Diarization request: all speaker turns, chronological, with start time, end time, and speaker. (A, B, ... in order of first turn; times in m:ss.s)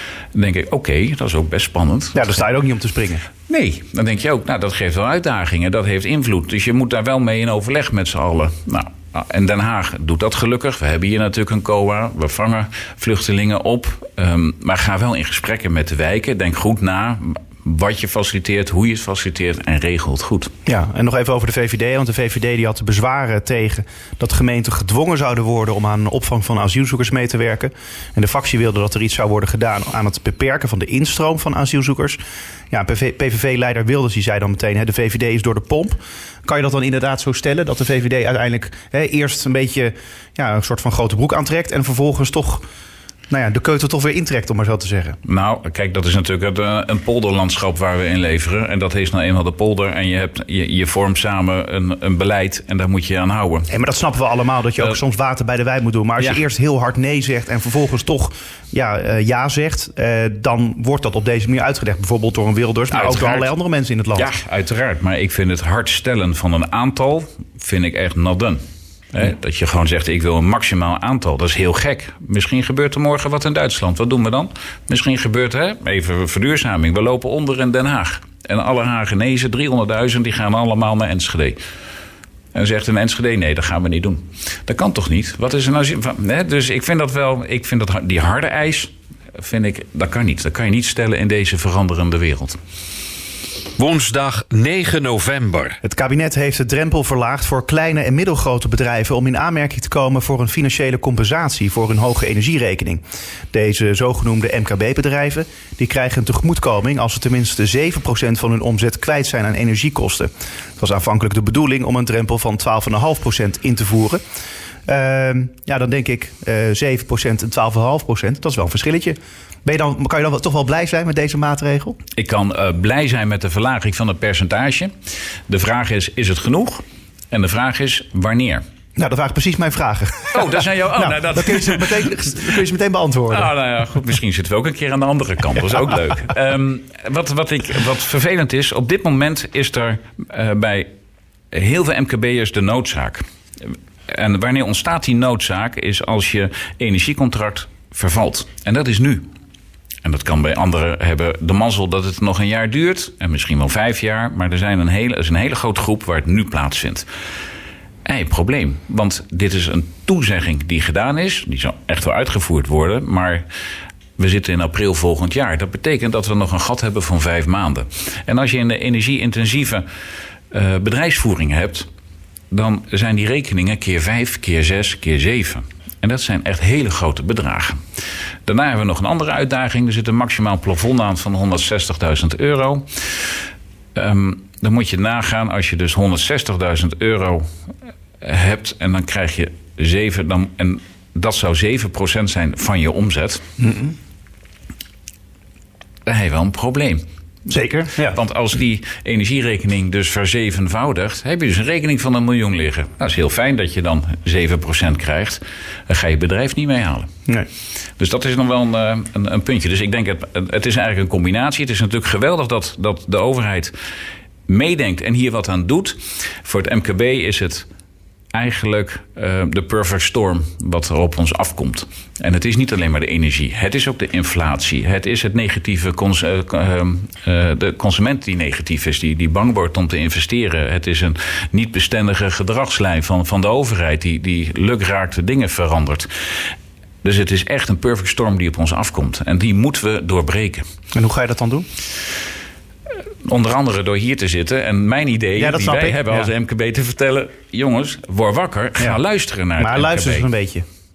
0:00.3-0:02.4 A
0:02.1-0:03.2 B
0:03.5-0:20.5 A
0:20.6-0:32.2 B
0:32.7-0:42.6 B
0:43.3-0:45.2 B
0:45.2-0:53.7 A
0:53.7-1:04.3 B
1:02.9-1:03.5 A
1:04.2-1:08.6 A
1:09.1-1:21.6 A
1:22.5-1:32.6 A
1:33.8-1:35.8 C
1:35.8-1:54.2 B
1:54.9-2:02.0 B
2:02.2-2:04.9 A
2:05.5-2:08.6 A
2:09.0-2:13.5 B
2:10.3-2:12.4 A
2:13.3-2:20.9 A
2:21.5-2:29.2 A
2:30.0-2:37.0 A
2:38.0-2:43.4 A
2:44.2-2:49.8 A
2:50.5-2:51.9 A
2:52.5-2:57.8 A
2:58.4-3:03.3 A
3:03.9-3:07.5 A
3:08.2-3:13.4 A
3:13.6-3:13.9 B
3:16.0-3:27.1 A
3:17.5-3:18.2 B
3:28.0-3:33.7 A
3:34.5-3:37.7 A
3:38.3-3:56.1 A
3:57.0-4:00.6 A
4:00.9-4:01.7 B
4:03.2-4:10.2 A
4:05.4-4:06.3 B
4:09.6-4:10.6 B